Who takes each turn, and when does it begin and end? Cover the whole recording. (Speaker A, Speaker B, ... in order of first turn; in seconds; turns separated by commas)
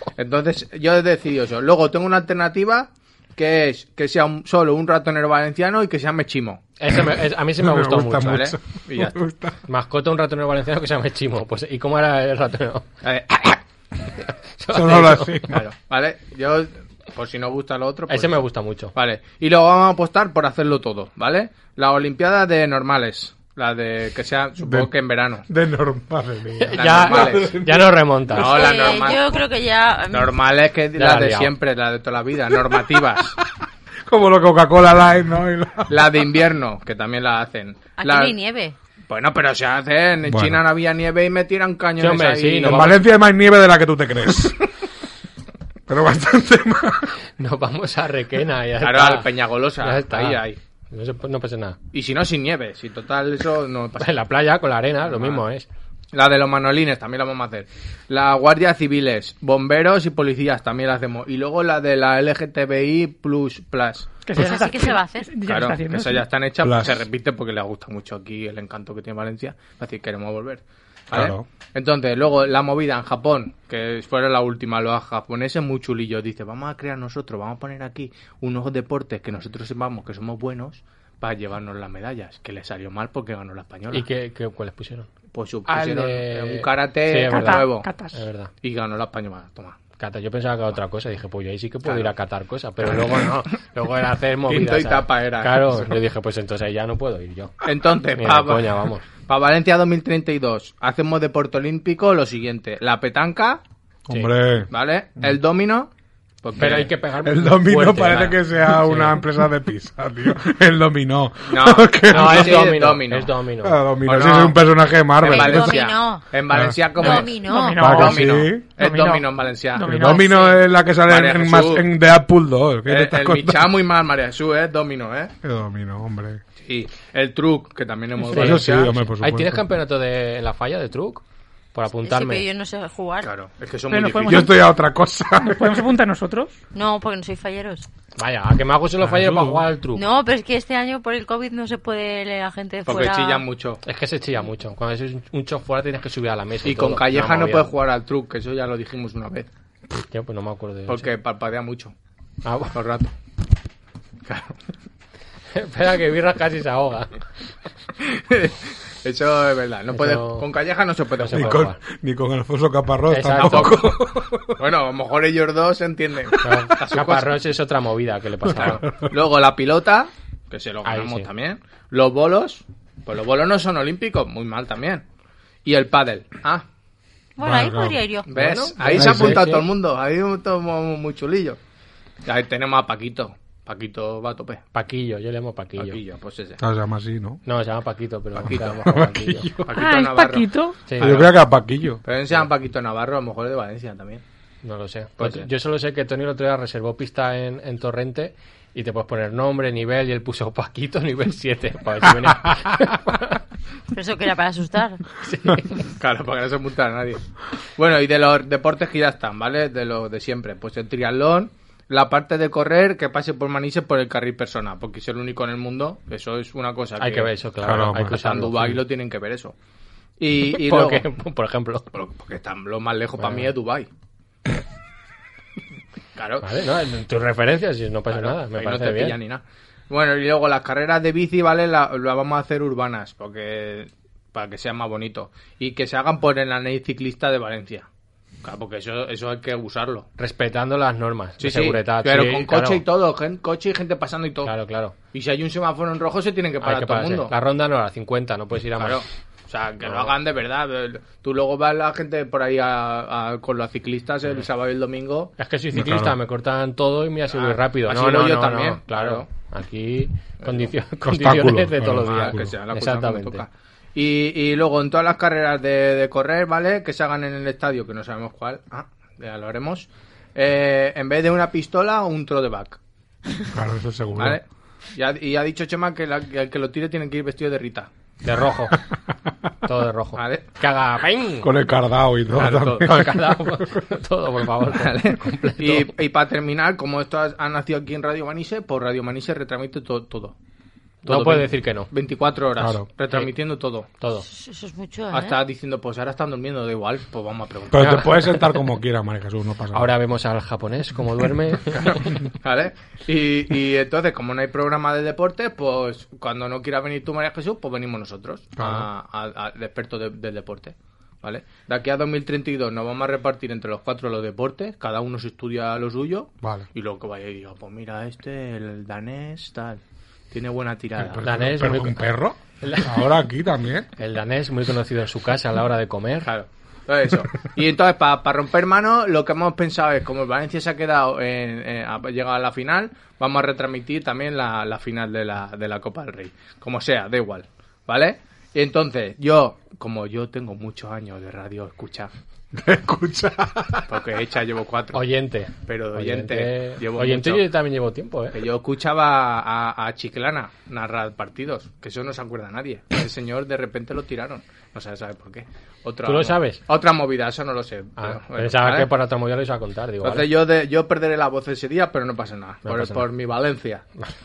Speaker A: 0.2-6.6, Speaker B: 6.8-8.5, Speaker C: 6.9-9.6, Speaker A: 8.2-9.2, Speaker B: 9.7-12.9, Speaker A: 13.0-13.6, Speaker B: 14.2-15.5, Speaker C: 14.7-15.6, Speaker A: 15.5-18.4, Speaker B: 18.1-18.9, Speaker A: 18.9-25.5, Speaker C: 24.6-24.9, Speaker C: 25.5-27.9, Speaker B: 26.6-28.7, Speaker A: 26.8-27.5, Speaker A: 28.3-29.4, Speaker D: 28.4-30.3, Speaker A: 30.1-33.4, Speaker B: 31.0-31.5, Speaker C: 34.1-36.3, Speaker A: 35.9-38.4, Speaker D: 38.0-38.8, Speaker A: 39.1-43.0, Speaker C: 40.2-40.6, Speaker B: 42.0-43.0, Speaker C: 42.6-44.6, Speaker C: 45.9-47.1, Speaker B: 47.4-51.8, Speaker A: 48.8-50.6, Speaker A: 51.9-54.2, Speaker B: 54.0-55.7, Speaker A: 55.1-55.4, Speaker A: 56.1-64.1, Speaker E: 64.3-66.3, Speaker D: 64.3-65.3, Speaker A: 65.5-84.1, Speaker C: 66.6-67.0, Speaker C: 71.1-71.5, Speaker B: 83.9-85.1, Speaker A: 85.3-88.0, Speaker B: 85.7-88.5, Speaker E: 87.2-88.2, Speaker A: 88.6-89.8, Speaker B: 90.0-97.6, Speaker A: 91.8-92.1, Speaker A: 94.5-96.0, Speaker A: 97.6-103.6, Speaker B: 98.1-99.0, Speaker C: 104.1-104.7, Speaker A: 104.7-105.9, Speaker A: 106.4-106.9, Speaker B: 106.6-109.2, Speaker C: 107.2-112.8, Speaker A: 111.5-113.3, Speaker B: 112.1-113.8, Speaker C: 113.6-115.8, Speaker A: 114.0-114.6, Speaker D: 115.2-116.2, Speaker A: 115.2-120.3, Speaker C: 116.5-116.8, Speaker D: 117.0-117.9, Speaker E: 117.0-120.5, Speaker C: 117.8-118.7, Speaker C: 119.8-123.7, Speaker A: 121.0-121.9, Speaker A: 122.9-125.3, Speaker C: 125.4-126.4, Speaker A: 126.6-129.0, Speaker B: 128.3-132.4, Speaker C: 128.3-129.6, Speaker D: 132.0-133.3, Speaker A: 133.2-134.5, Speaker E: 133.9-134.7, Speaker C: 134.2-135.8, Speaker E: 135.4-136.6, Speaker D: 136.7-137.9, Speaker B: 138.2-140.1, Speaker C: 139.0-139.6, Speaker D: 139.9-143.4, Speaker A: 142.9-143.8, Speaker B: 143.8-147.7, Speaker A: 146.6-149.5, Speaker B: 150.1-151.1, Speaker A: 150.9-151.9, Speaker B: 152.4-152.8, Speaker A: 152.7-153.1, Speaker A: 154.3-154.6, Speaker B: 155.5-157.2, Speaker A: 158.0-161.6, Speaker B: 159.9-160.5, Speaker B: 161.2-161.8, Speaker C: 161.3-164.6, Speaker B: 163.1-163.8, Speaker A: 163.4-164.0, Speaker A: 164.6-167.4, Speaker B: 166.4-168.8, Speaker A: 168.5-175.0, Speaker C: 168.6-169.0, Speaker B: 170.8-171.3, Speaker A: 175.7-176.7, Speaker D: 177.4-178.7, Speaker C: 177.4-178.0, Speaker A: 178.3-181.6, Speaker B: 178.5-179.7, Speaker C: 178.9-179.5, Speaker A: 182.2-184.6, Speaker B: 184.7-186.0, Speaker A: 185.8-186.6, Speaker C: 186.6-187.4, Speaker B: 187.5-189.5, Speaker C: 188.4-189.8, Speaker A: 188.4-191.4, Speaker E: 189.7-190.8, Speaker B: 190.9-191.2, Speaker C: 191.0-192.0, Speaker A: 192.0-194.2, Speaker B: 194.6-203.4, Speaker A: 195.2-195.5, Speaker D: 203.9-205.1, Speaker B: 205.2-205.7, Speaker A: 206.0-207.2, Speaker A: 207.8-217.3, Speaker B: 217.0-218.8, Speaker C: 217.6-218.2, Speaker A: 218.1-219.5, Speaker A: 220.2-221.1, Speaker B: 220.4-221.9, Speaker A: 221.9-223.9, Speaker B: 223.2-223.5, Speaker A: 226.2-226.5, Speaker B: 226.4-229.2, Speaker A: 228.1-237.9, Speaker A: 238.4-240.1, Speaker B: 240.2-242.8, Speaker A: 241.4-244.5, Speaker B: 244.4-244.9, Speaker A: 245.1-247.3, Speaker B: 246.6-249.0, Speaker A: 248.8-255.3, Speaker B: 249.8-250.1, Speaker B: 255.4-263.4, Speaker C: 255.7-256.2, Speaker A: 257.3-259.3, Speaker A: 260.4-260.7, Speaker C: 261.0-262.6, Speaker A: 262.0-272.8, Speaker C: 273.5-274.4, Speaker A: 274.2-277.9, Speaker B: 278.2-278.8, Speaker B: 279.6-281.5, Speaker A: 280.2-280.4, Speaker C: 281.4-283.0, Speaker A: 282.3-283.0, Speaker B: 282.8-285.9, Speaker A: 284.7-290.4, Speaker B: 291.1-291.9, Speaker A: 291.1-293.9, Speaker C: 292.6-292.9, Speaker B: 294.0-294.3, Speaker D: 294.2-295.4, Speaker A: 295.1-298.1, Speaker C: 297.7-299.9, Speaker B: 297.8-298.4, Speaker B: 299.7-302.2, Speaker A: 301.8-321.3, Speaker C: 308.6-308.9, Speaker C: 316.4-316.7, Speaker C: 321.0-323.9, Speaker B: 321.2-322.1, Speaker B: 322.6-322.9, Speaker B: 324.0-326.3, Speaker A: 326.2-342.1, Speaker C: 342.5-343.9, Speaker A: 343.9-345.0, Speaker B: 344.9-348.4, Speaker A: 345.6-347.5, Speaker A: 348.3-358.9, Speaker B: 356.0-356.6, Speaker B: 358.0-360.3, Speaker A: 360.0-363.9, Speaker B: 362.7-363.1